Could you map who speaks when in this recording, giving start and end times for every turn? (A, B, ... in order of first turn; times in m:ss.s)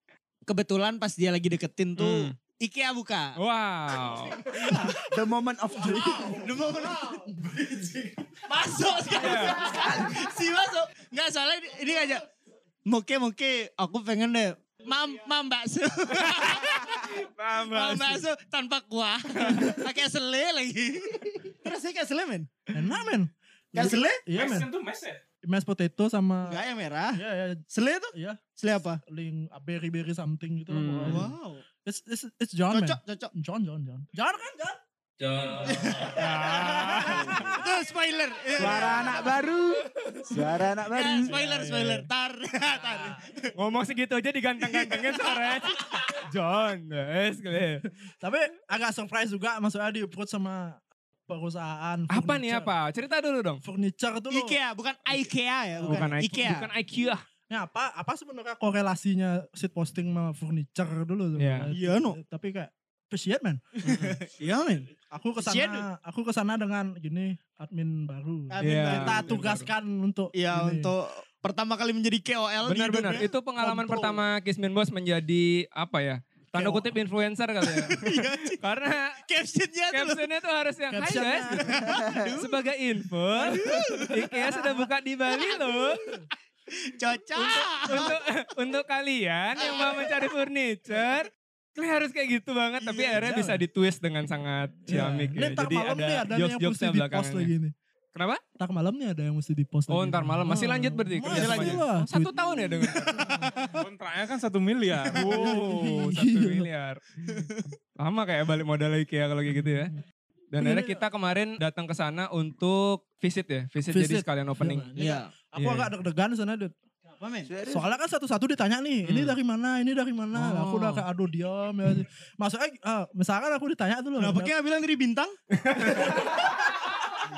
0:00.5-0:03.4 A
0:02.0-0:02.4 B
0:03.4-0:04.5 B
0:04.4-0:05.0 A
0:05.1-0:06.5 C
0:06.4-0:07.3 A
0:08.4-0:12.2 A
0:09.1-0:09.7 B
0:12.9-0:22.5 A
0:16.3-0:18.2 B
0:19.4-0:19.8 B
0:22.7-0:24.7 D
0:23.7-0:24.2 A
0:24.4-0:25.2 E
0:25.4-0:26.6 D
0:26.5-0:27.2 A
0:27.2-0:28.4 D
0:27.7-0:29.0 A
0:29.1-0:31.3 D
0:30.7-0:31.3 B
0:31.0-0:31.6 A
0:31.8-0:34.8 D
0:32.7-0:33.3 A
0:35.6-0:39.2 A
0:36.1-0:37.5 B
0:36.3-0:37.6 D
0:38.6-0:41.4 C
0:40.8-0:43.5 A
0:41.4-0:42.1 B
0:43.6-0:47.8 B
0:44.6-0:45.7 A
0:48.2-0:52.7 D
0:52.1-0:53.6 B
0:53.6-0:54.6 D
0:54.3-0:56.7 A
0:55.8-0:56.1 D
0:55.8-0:57.2 B
0:57.5-1:03.6 D
1:01.4-1:01.7 B
1:01.7-1:02.2 A
1:03.8-1:05.9 A
1:03.9-1:04.1 B
1:05.1-1:10.9 D
1:08.5-1:09.4 A
1:08.6-1:09.7 B
1:10.3-1:13.3 A
1:12.6-1:19.2 B
1:13.6-1:14.2 D
1:17.6-1:18.6 A
1:19.3-1:20.2 A
1:19.9-1:21.8 B
1:20.9-1:22.0 D
1:21.8-1:22.5 A
1:22.3-1:26.0 B
1:23.4-1:24.5 A
1:23.4-1:24.8 D
1:25.3-1:25.9 A
1:26.8-1:28.2 A
1:27.4-1:37.5 B
1:29.6-1:30.3 A
1:32.8-1:33.6 A
1:34.9-1:37.7 D
1:38.2-1:38.4 B
1:38.6-1:43.5 D
1:39.9-1:43.4 B
1:41.3-1:41.8 A
1:43.0-1:43.8 A
1:43.8-1:45.3 E
1:45.1-1:46.7 D
1:45.1-1:47.0 B
1:47.3-1:47.6 A
1:48.0-1:49.9 B
1:50.5-1:54.9 B
1:50.6-1:51.0 D
1:53.9-1:56.7 D
1:55.0-1:55.3 A
1:55.6-1:55.9 B
1:57.2-1:57.5 A
1:57.4-1:58.0 C
1:57.7-2:04.5 D
1:59.1-1:59.3 B
2:00.4-2:01.0 B
2:04.2-2:05.4 A
2:05.6-2:06.4 B